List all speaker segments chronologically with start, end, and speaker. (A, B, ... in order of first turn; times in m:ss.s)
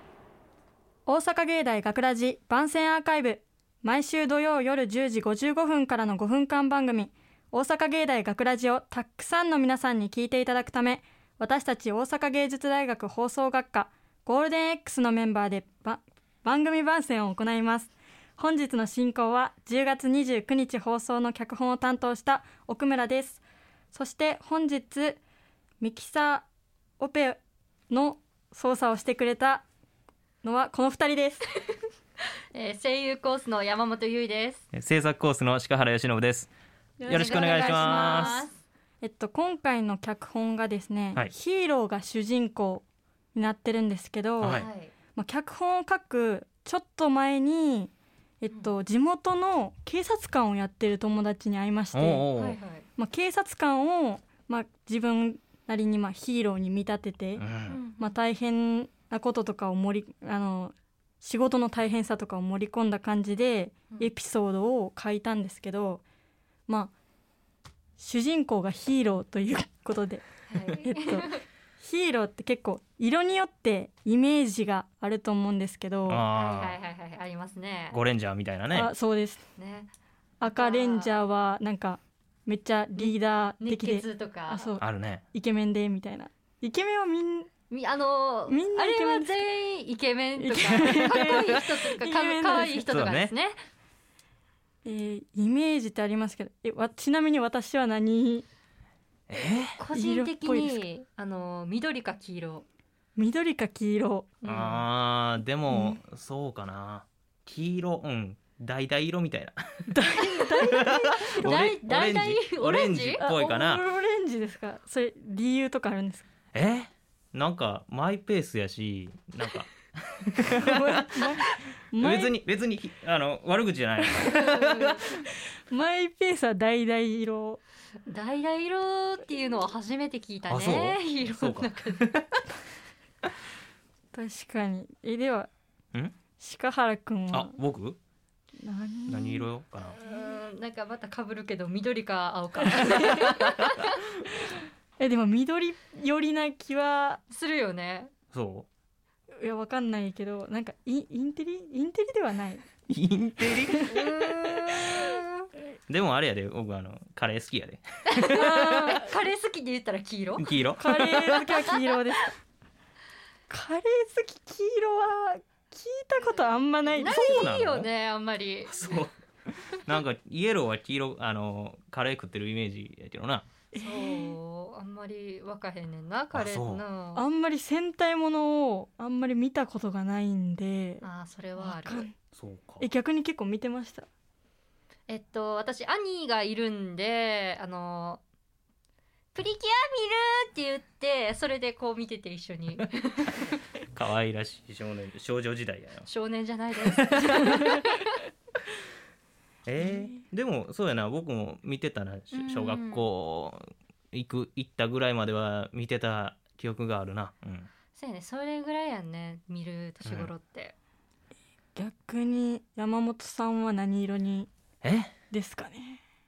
0:01.1-0:23.4 A
0:23.9-0:25.2 A
0:25.8-0:26.4 A
0:27.0-0:29.6 A
0:30.4-0:31.4 A
0:32.5-0:34.6 B
0:34.7-0:36.5 C
0:37.0-0:38.5 A
0:37.1-0:38.4 C
0:37.1-0:38.6 B
0:39.0-0:52.3 A
0:44.4-0:44.7 C
0:44.4-0:44.9 B
0:51.9-0:52.6 C
0:52.4-0:52.8 B
0:53.0-0:57.5 A
0:57.4-0:57.8 C
0:57.7-0:58.0 B
0:58.0-1:06.0 A
1:06.7-1:06.9 A
1:08.0-1:16.2 A
1:10.5-1:11.4 B
1:16.1-1:16.8 C
1:16.3-1:18.0 B
1:17.9-1:18.9 C
1:18.7-1:19.4 A
1:19.6-1:19.9 B
1:20.4-1:21.2 B
1:20.4-1:27.5 A
1:23.0-1:24.7 B
1:24.8-1:25.2 C
1:27.7-1:33.6 B
1:28.5-1:29.4 A
1:30.4-1:32.9 A
1:30.9-1:31.4 C
1:32.8-1:33.3 C
1:34.8-1:38.5 A
1:39.3-1:39.7 C
1:39.8-1:42.6 B
1:39.9-1:40.8 A
1:43.2-1:44.3 A
1:44.4-1:44.8 B
1:44.5-1:49.6 C
1:45.7-1:46.0 A
1:49.9-1:51.7 A
1:50.3-1:53.8 C
1:51.4-1:53.2 B
1:53.2-1:56.3 A
1:56.5-2:01.3 C
2:00.6-2:02.4 A
2:02.0-2:04.8 C
2:04.2-2:05.2 A
2:04.4-2:05.0 B
2:05.7-2:07.6 A
2:08.0-2:12.1 B
2:10.5-2:12.3 C
2:14.1-2:15.5 A
2:16.4-2:17.6 A
2:17.3-2:18.0 C
2:18.6-2:19.5 A
2:19.1-2:20.0 C
2:19.8-2:24.0 B
2:23.1-2:23.6 C
2:25.0-2:27.2 A
2:27.3-2:28.1 B
2:28.3-2:28.7 C
2:29.4-2:32.6 A
2:32.9-2:34.0 C
2:33.7-2:34.0 A
2:33.9-2:35.5 B
2:35.9-2:38.9 C
2:38.1-2:40.6 B
2:38.3-2:39.1 A
2:40.4-2:41.5 C
2:40.8-2:42.4 A
2:43.5-2:47.5 A
2:46.9-2:48.9 B
2:47.0-2:47.9 C
2:48.6-2:49.1 C
2:49.9-2:53.5 C
2:53.7-2:54.4 A
2:53.7-2:57.2 B
2:56.3-2:56.8 C
2:57.2-3:01.0 A
3:01.0-3:02.1 B
3:01.6-3:02.1 A
3:02.3-3:02.9 C
3:02.8-3:04.1 A
3:05.1-3:08.2 B
3:09.3-3:13.6 B
3:14.0-3:16.1 C
3:16.1-3:18.1 B
3:16.9-3:17.7 C
3:19.7-3:27.7 C
3:22.3-3:23.1 B
3:27.9-3:30.8 B
3:30.0-3:30.3 C
3:31.8-3:34.5 A
3:34.8-3:35.1 C
3:35.3-3:36.0 A